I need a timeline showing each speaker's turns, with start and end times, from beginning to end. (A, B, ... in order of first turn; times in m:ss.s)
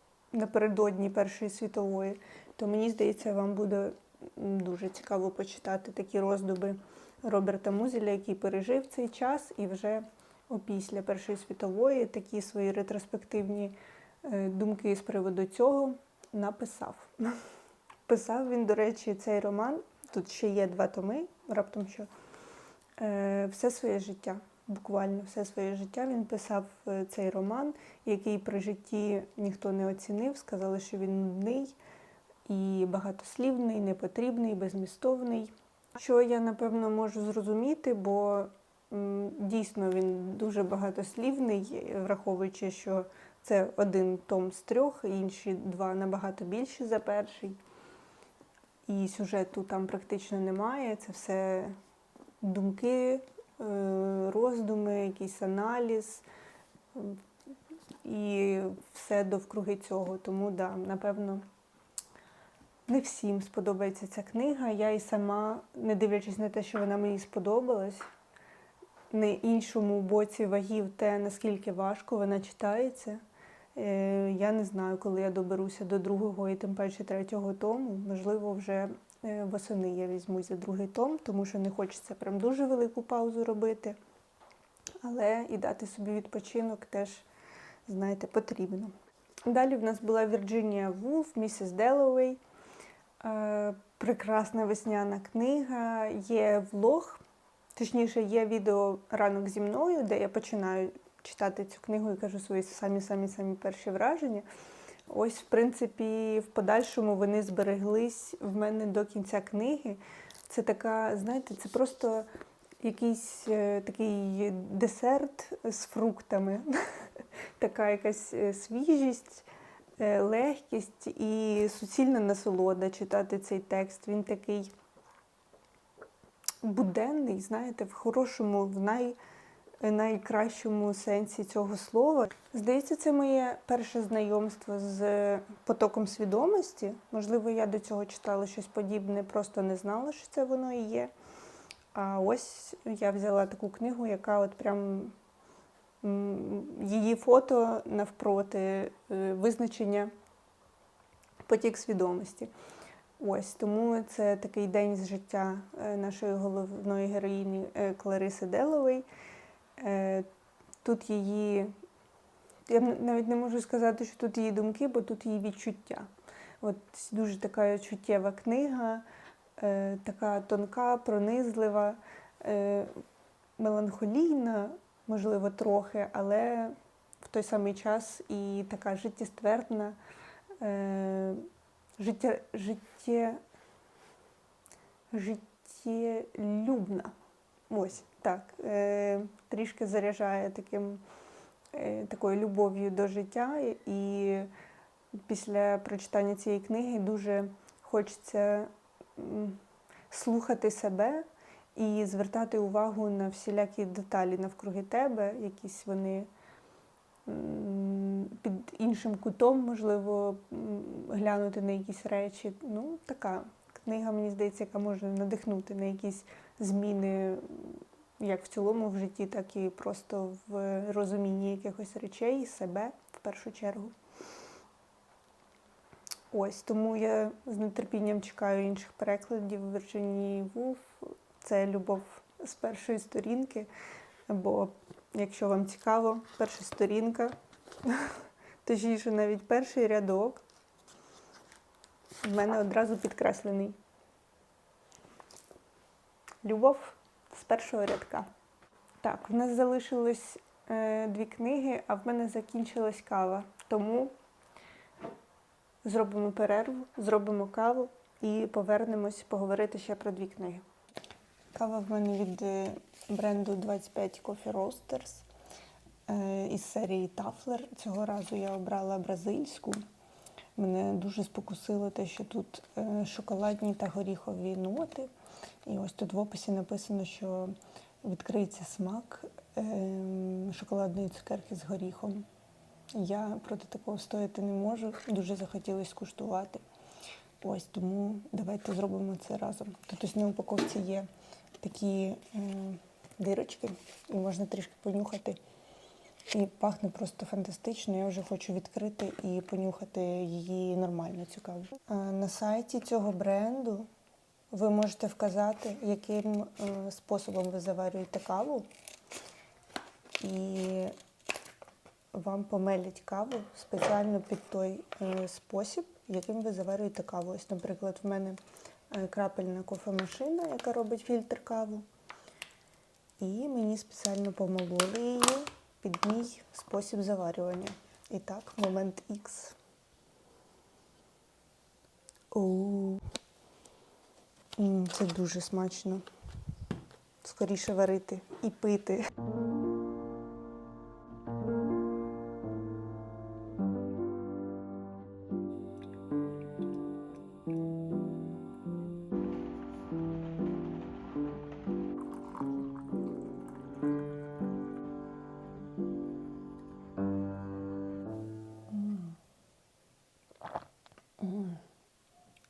0:00.3-0:17.4 A
0:18.1-0:22.1 A
0:23.0-0:31.8 A
0:32.5-0:47.6 A
0:48.9-0:51.8 A
0:52.4-0:56.2 A
0:56.9-0:57.2 A
0:58.0-1:01.4 A
1:02.9-1:08.0 A
1:09.1-1:13.2 A
1:13.7-1:24.0 A
1:25.0-1:27.2 A
1:27.9-1:28.9 A
1:29.5-1:32.4 A
1:33.2-1:37.2 A
1:37.8-1:44.4 A
1:45.1-1:52.3 A
1:52.8-1:57.0 A
1:57.6-1:59.4 A
2:00.0-2:04.7 A
2:06.6-2:09.2 A
2:09.8-2:21.1 A
2:21.9-2:25.1 A
2:26.0-2:30.1 A
2:31.4-2:32.5 A
2:33.2-2:39.0 A
2:39.8-2:40.3 A
2:40.8-2:41.7 A
2:42.7-2:46.1 A
2:46.6-2:49.0 A
2:49.6-2:52.9 A
2:53.6-3:00.0 A
3:00.6-3:01.4 A
3:02.0-3:03.4 A
3:05.1-3:07.1 A
3:07.7-3:11.0 A
3:11.7-3:14.5 A
3:15.2-3:26.3 A
3:27.2-3:43.9 A
3:46.3-3:53.7 A
3:54.3-3:57.3 A
3:57.8-4:00.4 A
4:02.2-4:03.8 A
4:06.4-4:08.3 A
4:09.0-4:14.1 A
4:15.8-4:20.6 A
4:21.5-4:25.2 A
4:26.1-4:29.8 A
4:30.6-4:35.1 A
4:35.6-4:42.3 A
4:42.9-4:46.6 A
4:47.4-4:51.1 A
4:51.6-4:55.4 A
4:56.3-5:03.9 A
5:04.5-5:08.6 A
5:10.2-5:10.9 A
5:12.1-5:18.4 A
5:18.9-5:21.8 A
5:23.2-5:29.6 A
5:32.3-5:33.0 A
5:34.6-5:36.0 A
5:37.2-5:39.1 A
5:58.7-5:59.2 A
6:01.2-6:01.6 A